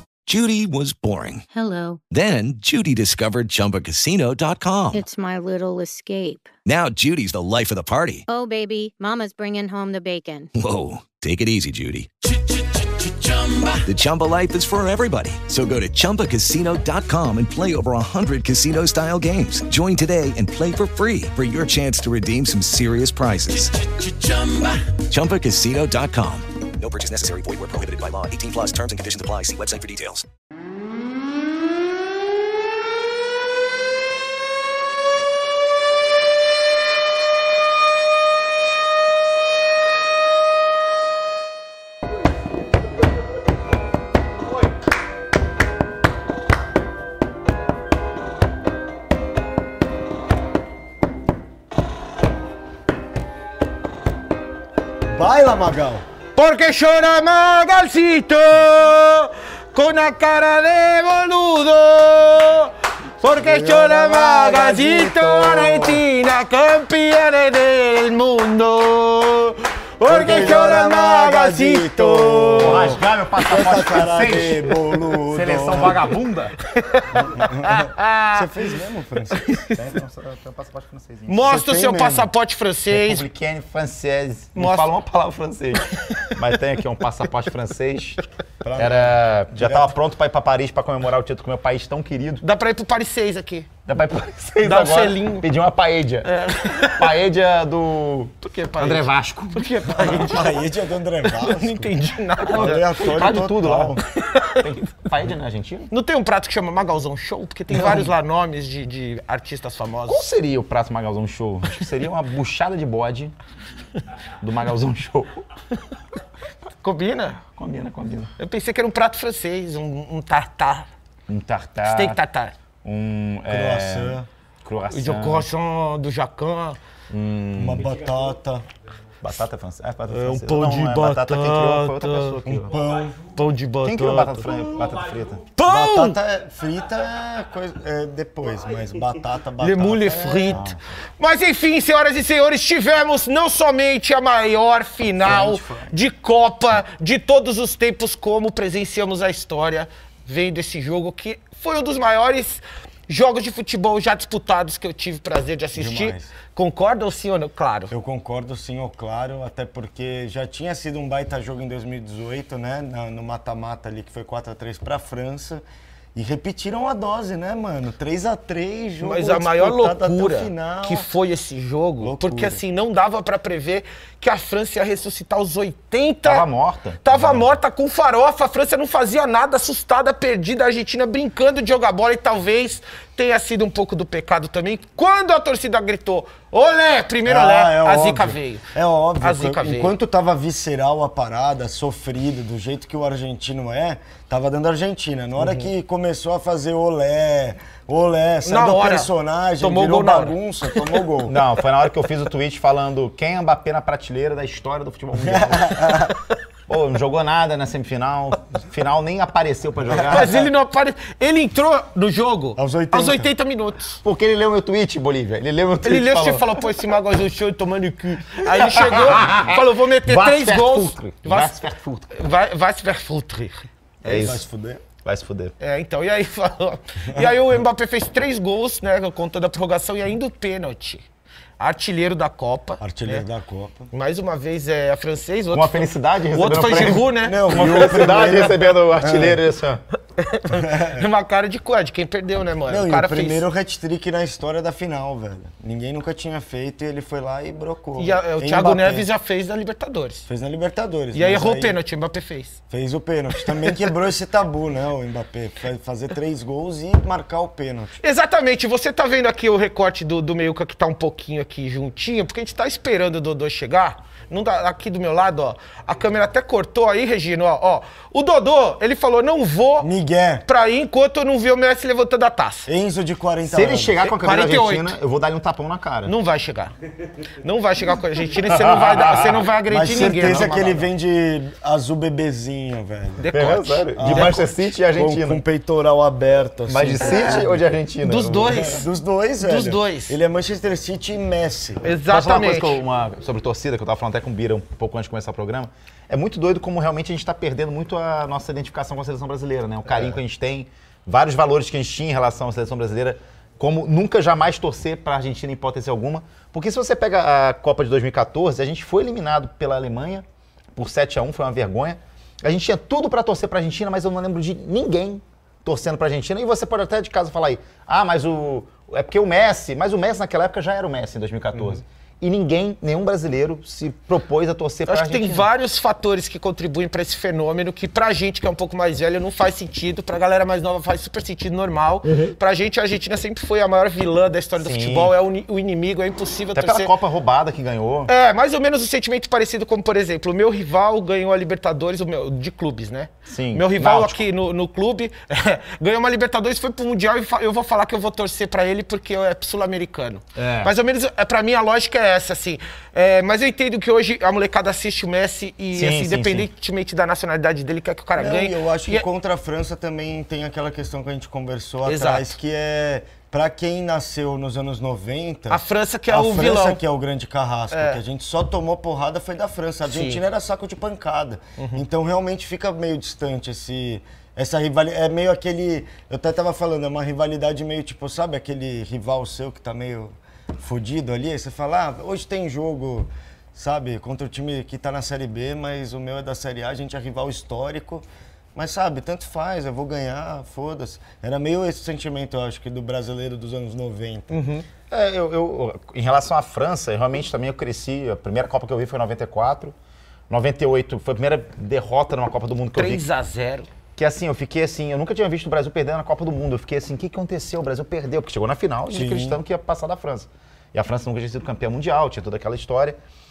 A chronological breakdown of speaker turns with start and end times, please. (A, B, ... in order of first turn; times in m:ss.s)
0:00.3-0:01.4 A
0:01.5-0:02.0 B
0:02.1-0:05.0 A
0:04.9-0:06.5 B
0:06.6-0:08.2 A
0:08.3-0:10.5 B
0:10.5-0:12.1 A
0:13.8-0:24.3 A
0:25.1-0:30.2 A
0:55.0-0:56.0 C
0:56.4-1:13.0 D
1:03.3-1:06.0 C
1:10.0-1:16.0 C
1:12.6-1:16.5 E
1:16.8-1:18.5 D
1:17.4-1:19.6 C
1:19.6-1:21.5 E
1:21.3-1:23.2 D
1:21.4-1:22.3 C
1:22.9-1:28.2 E
1:24.5-1:24.9 D
1:28.6-1:29.9 C
1:28.8-1:32.4 E
1:32.4-1:33.7 D
1:33.8-1:36.3 E
1:34.6-1:35.5 D
1:36.2-1:37.0 D
1:36.8-1:40.1 E
1:38.4-1:40.6 D
1:40.0-1:44.0 C
1:41.2-1:43.0 D
1:42.5-1:44.0 E
1:44.2-1:44.6 D
1:44.6-1:45.9 E
1:45.9-1:50.3 D
1:47.8-1:48.0 E
1:50.1-1:53.3 E
1:54.4-1:55.4 E
1:56.8-1:57.4 D
1:57.6-1:58.3 E
1:58.4-2:00.9 D
2:01.3-2:02.2 E
2:01.8-2:02.5 D
2:02.8-2:05.5 E
2:03.5-2:04.2 C
2:04.9-2:06.8 D
2:07.1-2:07.9 E
2:07.6-2:08.6 C
2:09.2-2:12.8 E
2:10.1-2:12.4 D
2:12.4-2:13.2 C
2:13.3-2:14.5 D
2:13.8-2:15.4 E
2:15.6-2:16.2 D
2:15.6-2:20.6 C
2:19.6-2:20.6 D
2:20.5-2:20.8 E
2:21.2-2:37.9 D
2:25.2-2:25.9 E
2:35.7-2:36.3 C
2:37.9-2:51.1 C
2:49.0-2:56.4 D
2:52.0-2:52.6 C
2:56.2-2:57.5 E
2:57.0-3:08.7 D
3:07.2-3:21.4 C
3:09.2-3:09.9 D
3:18.4-3:20.8 D
3:21.3-3:26.1 E
3:25.2-3:26.1 C
3:26.7-3:30.5 E
3:30.1-3:34.0 D
3:32.6-3:33.3 C
3:34.0-3:36.6 E
3:35.8-3:41.6 D
3:38.6-3:42.1 E
3:42.1-3:43.7 D
3:44.0-3:44.8 C
3:44.0-3:44.4 E
3:45.0-3:45.5 E
3:45.6-3:51.0 D
3:51.6-3:53.2 D
3:52.8-3:53.9 C
3:53.9-3:58.5 D
3:55.5-3:59.8 E
3:56.9-3:59.4 C
4:00.2-4:03.4 D
4:00.5-4:01.1 C
4:02.7-4:09.1 C
4:08.0-4:10.3 D
4:10.3-4:11.8 C
4:11.1-4:12.6 D
4:12.7-4:18.0 C
4:18.0-4:29.9 D
4:29.8-4:30.4 C
4:30.4-4:32.7 D
4:32.6-4:34.0 C
4:33.4-4:36.1 E
4:34.0-4:34.9 D
4:36.0-4:36.7 D
4:37.4-4:40.6 D
4:38.4-4:40.8 E
4:39.7-4:43.3 C
4:43.2-4:44.5 D
4:43.3-4:45.4 E
4:44.0-4:47.6 C
4:46.7-4:48.6 E
4:48.0-4:48.8 D
4:48.4-4:51.8 C
4:49.4-4:50.2 D
4:51.8-4:52.8 D
4:52.1-5:10.2 E
5:10.8-5:25.4 E
5:24.9-5:36.9 D
5:32.0-5:32.4 E
5:34.6-5:35.1 E
5:36.5-5:38.1 E
5:38.1-5:59.0 D
5:43.3-5:44.2 E
5:50.4-5:50.7 E
5:55.7-5:56.5 E
5:58.2-6:34.4 C
6:01.8-6:02.3 D
6:05.5-6:06.8 D
6:07.7-6:08.0 D
6:09.8-6:10.2 D
6:11.6-6:11.8 D
6:34.3-6:34.6 D
6:34.9-6:39.7 E
6:40.3-6:43.1 E
6:42.7-6:43.7 D
6:44.0-6:53.0 E
6:48.9-6:49.4 C